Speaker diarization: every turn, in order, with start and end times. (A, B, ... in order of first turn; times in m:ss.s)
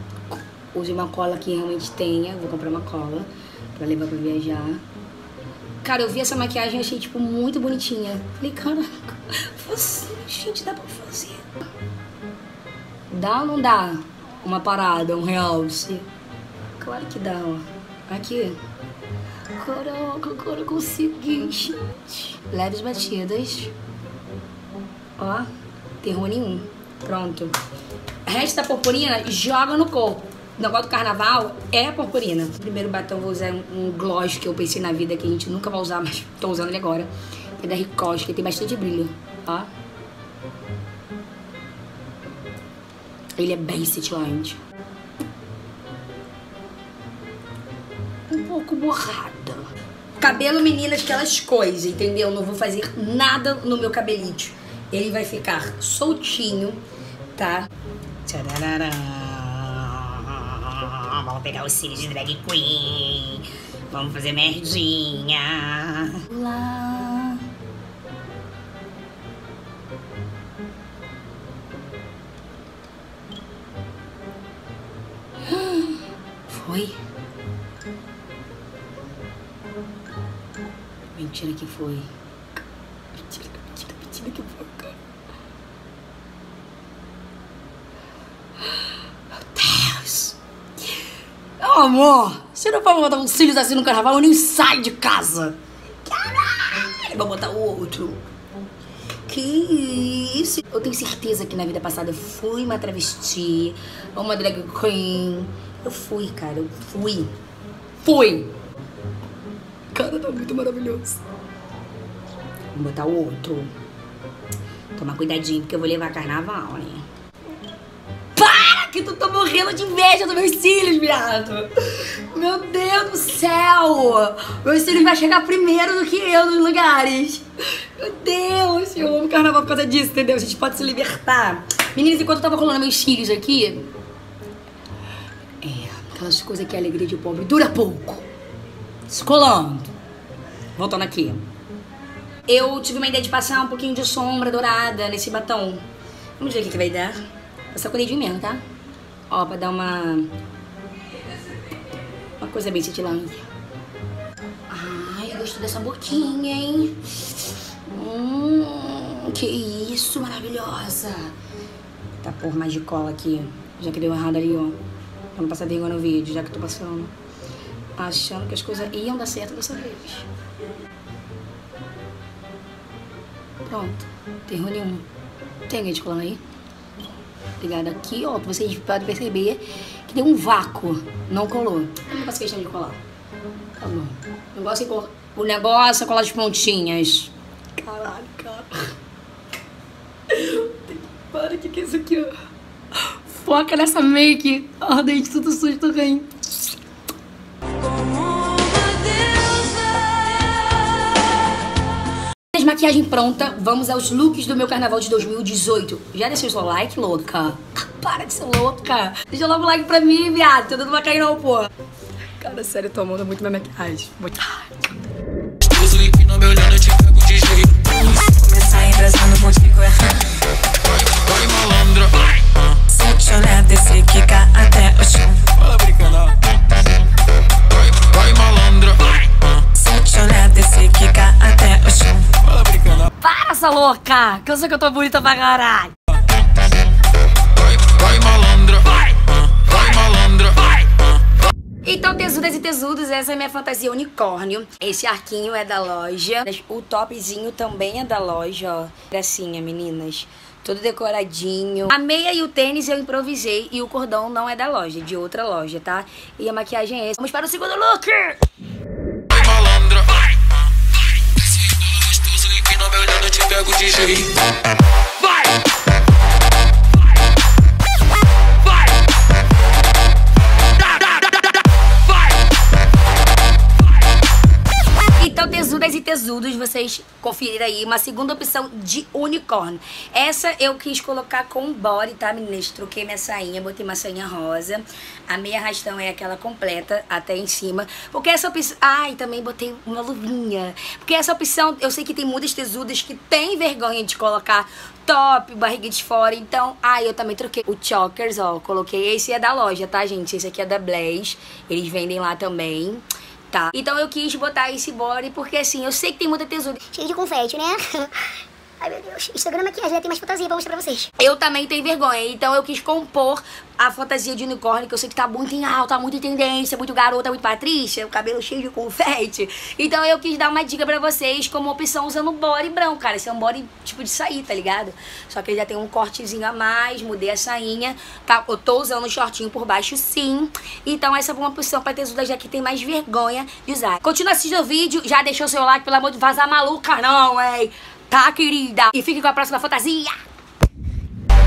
0:00.3-0:04.8 A
0:05.8-0:11.5 A
0:13.1-0:16.1 A
0:16.8-0:18.6 A
0:19.6-0:23.7 A
0:25.2-0:25.5 A
0:26.0-0:27.6 A
0:28.2-0:39.7 A
0:43.4-0:44.6 A
0:48.3-0:56.8 A
0:57.3-0:57.7 A
0:58.2-1:07.4 A
1:15.4-1:17.0 A
1:21.1-1:22.1 A
1:23.1-1:25.0 A
1:28.6-1:30.4 A
1:31.6-1:38.2 A
1:39.2-1:47.3 A
1:48.0-1:48.5 A
1:49.9-1:51.2 A
1:52.7-1:53.7 A
1:54.9-1:57.1 A
1:58.4-2:13.9 A
2:15.6-2:18.2 A
2:19.1-2:19.9 A
2:20.8-2:21.5 A
2:22.5-2:25.8 A
2:26.4-2:27.2 A
2:27.7-2:28.6 A
2:29.3-2:30.3 A
2:32.4-2:33.5 A
2:34.7-2:41.3 A
2:42.2-2:44.8 A
2:45.3-2:47.1 A
2:48.0-2:50.3 A
2:53.6-2:55.1 A
2:55.7-2:56.4 A
2:57.6-3:03.0 A
3:03.8-3:08.9 A
3:10.3-3:12.3 A
3:13.0-3:16.3 A
3:17.9-3:20.7 A
3:22.5-3:31.7 A
3:32.4-3:34.9 A
3:35.6-3:37.9 B
3:38.3-3:40.1 A
3:41.1-3:42.4 B
3:42.9-3:45.4 A
3:45.4-3:46.4 B
3:48.0-3:49.2 B
3:48.3-3:48.9 A
3:49.8-3:52.2 A
3:52.4-3:53.0 B
3:53.2-3:55.9 A
3:58.0-4:00.8 A
4:01.8-4:18.4 A
4:19.4-4:20.2 B
4:21.5-4:24.3 B
4:35.2-5:06.9 A
5:06.9-5:11.1 C
5:11.2-5:40.2 A